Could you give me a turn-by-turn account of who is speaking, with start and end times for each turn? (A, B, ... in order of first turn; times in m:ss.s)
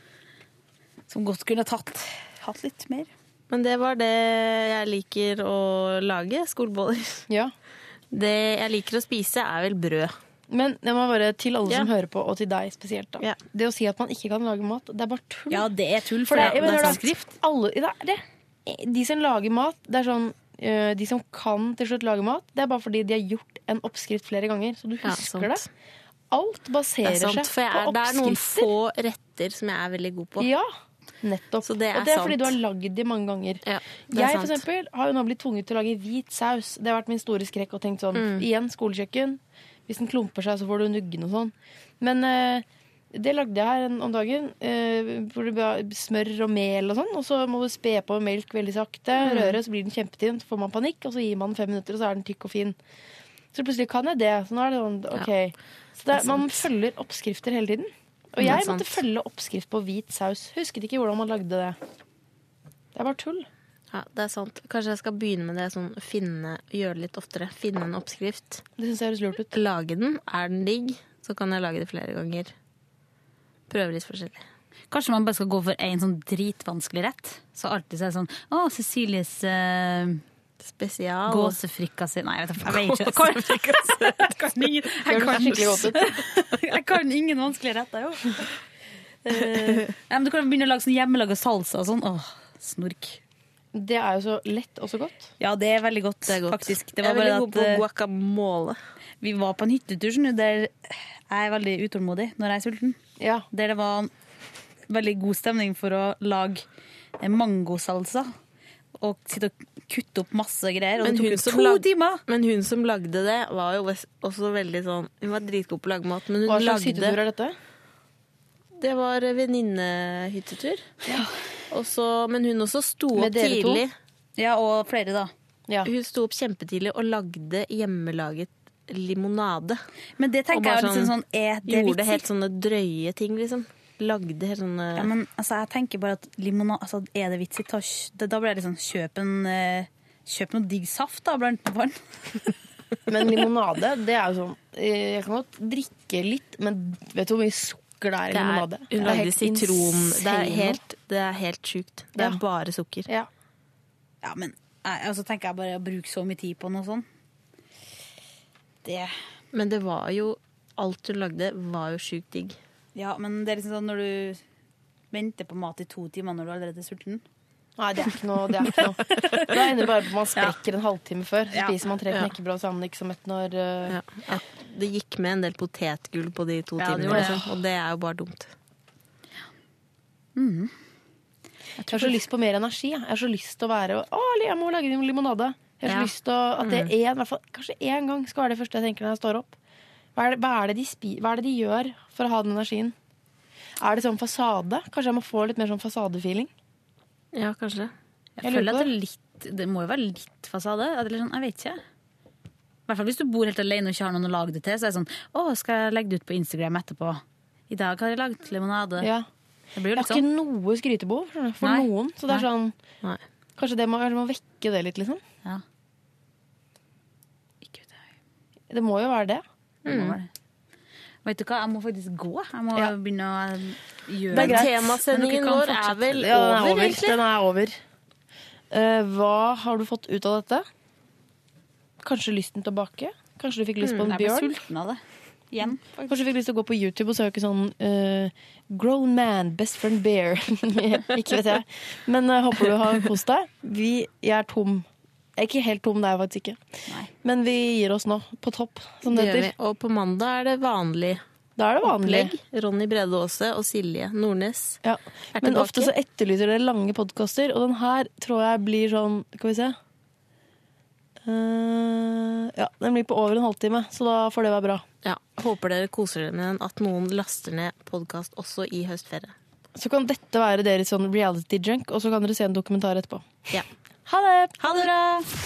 0:01.1-0:03.1 A
0:03.5-0:07.2 B
0:08.1-0:10.2 B
0:10.5-0:15.7 C
0:15.5-0:17.3 A
0:16.2-0:25.6 C
0:25.0-0:25.6 B
0:26.3-0:28.7 C
0:27.0-0:30.5 B
0:30.4-0:30.7 C
0:31.2-0:52.7 C
0:31.6-0:32.6 B
0:33.6-0:34.6 B
0:38.1-0:38.5 B
0:49.2-0:49.6 B
0:53.5-1:01.8 C
0:56.1-0:56.7 B
0:58.4-0:59.0 B
1:02.9-1:03.5 C
1:03.9-1:08.6 B
1:08.8-1:09.5 C
1:09.5-1:12.5 B
1:13.7-1:14.4 B
1:14.9-1:20.2 A
1:20.6-1:21.6 B
1:21.3-1:28.5 A
1:22.7-1:24.2 B
1:25.1-1:26.1 C
1:29.2-1:33.2 A
1:33.7-1:35.3 C
1:35.4-1:37.8 A
1:36.3-1:38.8 B
1:39.2-1:43.0 A
1:43.2-1:43.5 C
1:43.5-1:44.1 A
1:44.9-1:46.6 A
1:47.2-1:48.3 A
1:49.0-1:52.2 A
1:51.0-1:57.2 B
1:56.4-1:57.6 C
1:58.8-2:00.9 B
2:01.7-2:03.9 B
2:03.1-2:03.8 C
2:04.4-2:05.3 A
2:05.8-2:09.8 B
2:10.2-2:12.2 A
2:10.5-2:11.1 B
2:11.7-2:15.1 B
2:14.9-2:22.0 A
2:23.1-2:30.8 C
2:28.3-2:33.1 B
2:34.2-2:37.0 A
2:38.8-2:39.1 A
2:39.5-2:42.6 B
2:42.9-2:44.4 A
2:45.1-2:47.2 A
2:47.8-2:54.2 C
2:48.6-2:49.5 A
2:51.5-2:51.8 A
2:53.9-2:58.5 B
2:56.8-2:57.5 A
2:56.8-2:57.4 C
3:00.4-3:00.7 A
3:01.8-3:02.2 A
3:01.9-3:09.5 C
3:05.8-3:06.1 A
3:06.6-3:06.9 B
3:10.2-3:12.9 C
3:13.8-3:16.5 C
3:17.3-3:17.9 B
3:18.4-3:21.8 A
3:18.4-3:18.9 C
3:22.9-3:29.1 A
3:29.0-3:29.2 C
3:29.8-3:30.3 A
3:29.9-3:32.7 C
3:31.6-3:32.4 A
3:33.6-3:35.2 C
3:37.6-3:38.0 A
3:38.7-3:39.4 C
3:39.8-3:40.1 B
3:39.8-3:40.3 A
3:41.2-3:46.2 A
3:44.3-3:44.7 C
3:44.3-3:47.2 B
3:46.1-3:47.8 C
3:48.7-3:50.6 C
3:52.0-3:54.6 C
3:53.8-3:54.1 B
3:54.0-3:55.0 A
3:55.5-3:55.8 A
3:56.1-4:04.8 C
4:05.4-4:06.6 C
4:07.2-4:09.5 C
4:09.1-4:11.2 B
4:11.6-4:12.3 C
4:11.8-4:14.8 B
4:14.8-4:19.8 C
4:15.3-4:15.9 B
4:21.3-4:24.8 C
4:25.0-4:29.3 B
4:29.8-4:33.4 C
4:34.1-4:34.7 C
4:34.6-4:35.2 A